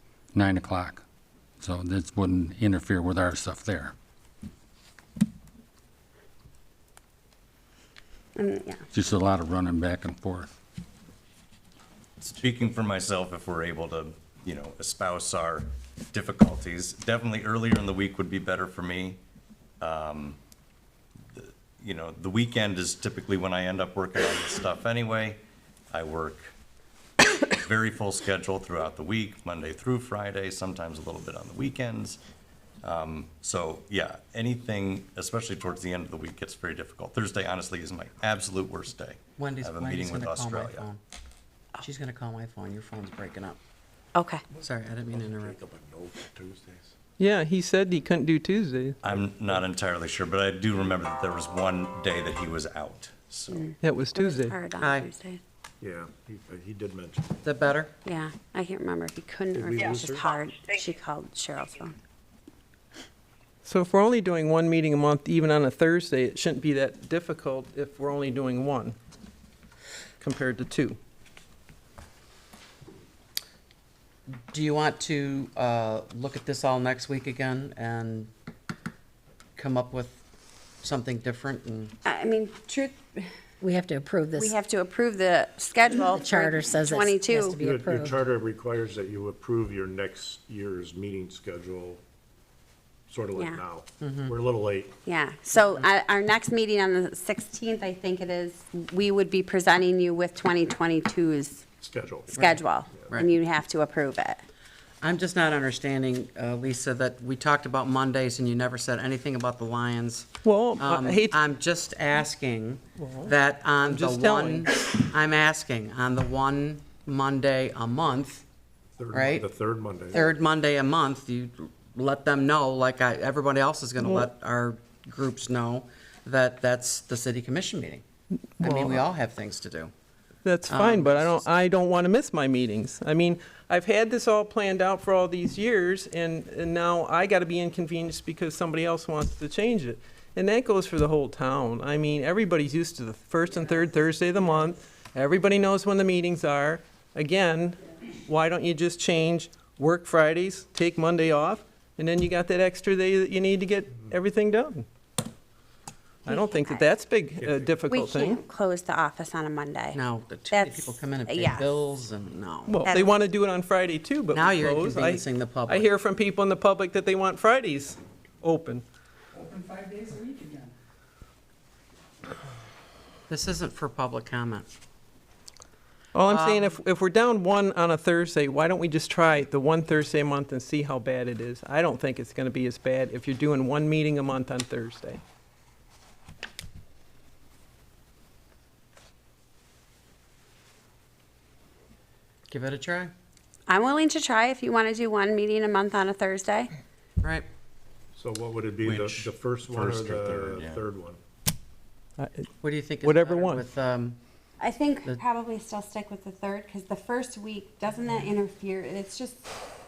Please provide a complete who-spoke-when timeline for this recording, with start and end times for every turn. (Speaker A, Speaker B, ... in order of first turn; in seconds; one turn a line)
Speaker A: 0.3-1.0
Speaker A: 1.6-3.9
Speaker B: 8.4-8.8
Speaker A: 8.9-10.6
Speaker C: 12.2-19.2
Speaker C: 19.8-20.4
Speaker C: 21.3-25.4
Speaker C: 25.9-26.5
Speaker C: 27.3-32.2
Speaker C: 32.8-40.9
Speaker D: 39.4-41.0
Speaker D: 41.8-43.6
Speaker B: 44.1-44.4
Speaker D: 44.6-45.6
Speaker E: 45.1-46.9
Speaker F: 47.2-49.0
Speaker C: 49.0-53.7
Speaker E: 49.1-49.6
Speaker B: 53.5-55.4
Speaker F: 53.8-54.6
Speaker D: 54.8-55.1
Speaker E: 55.8-57.4
Speaker D: 57.4-57.9
Speaker B: 58.0-61.9
Speaker E: 59.5-60.3
Speaker F: 63.6-69.0
Speaker F: 70.2-71.0
Speaker D: 74.5-78.3
Speaker D: 79.6-80.2
Speaker D: 80.8-81.9
Speaker B: 82.0-83.3
Speaker G: 83.6-84.5
Speaker B: 84.3-87.6
Speaker G: 85.9-88.2
Speaker E: 87.6-92.0
Speaker E: 93.1-95.0
Speaker B: 93.3-93.6
Speaker D: 94.0-94.3
Speaker B: 95.0-101.6
Speaker E: 101.8-102.4
Speaker B: 102.3-104.4
Speaker D: 102.3-103.3
Speaker D: 105.0-118.4
Speaker F: 110.5-111.4
Speaker F: 113.0-113.3
Speaker F: 113.8-114.7
Speaker E: 119.0-120.2
Speaker D: 119.1-119.5
Speaker D: 120.1-128.0
Speaker D: 128.6-129.9
Speaker F: 128.6-129.0
Speaker F: 130.4-154.9
Speaker D: 130.7-131.5
Speaker B: 156.2-156.9
Speaker F: 156.3-158.4
Speaker E: 157.4-157.8
Speaker B: 157.9-160.0
Speaker D: 159.9-162.8
Speaker B: 160.5-161.7
Speaker F: 162.7-168.8
Speaker B: 162.8-163.2
Speaker D: 164.3-165.9
Speaker F: 169.6-170.6
Speaker D: 173.3-174.7
Speaker F: 176.1-185.2
Speaker D: 176.2-176.7
Speaker D: 192.5-193.1
Speaker B: 193.7-196.7
Speaker E: 198.2-201.2
Speaker C: 198.8-200.8
Speaker F: 202.2-202.5
Speaker D: 202.6-204.2
Speaker F: 203.0-203.7
Speaker B: 204.6-209.5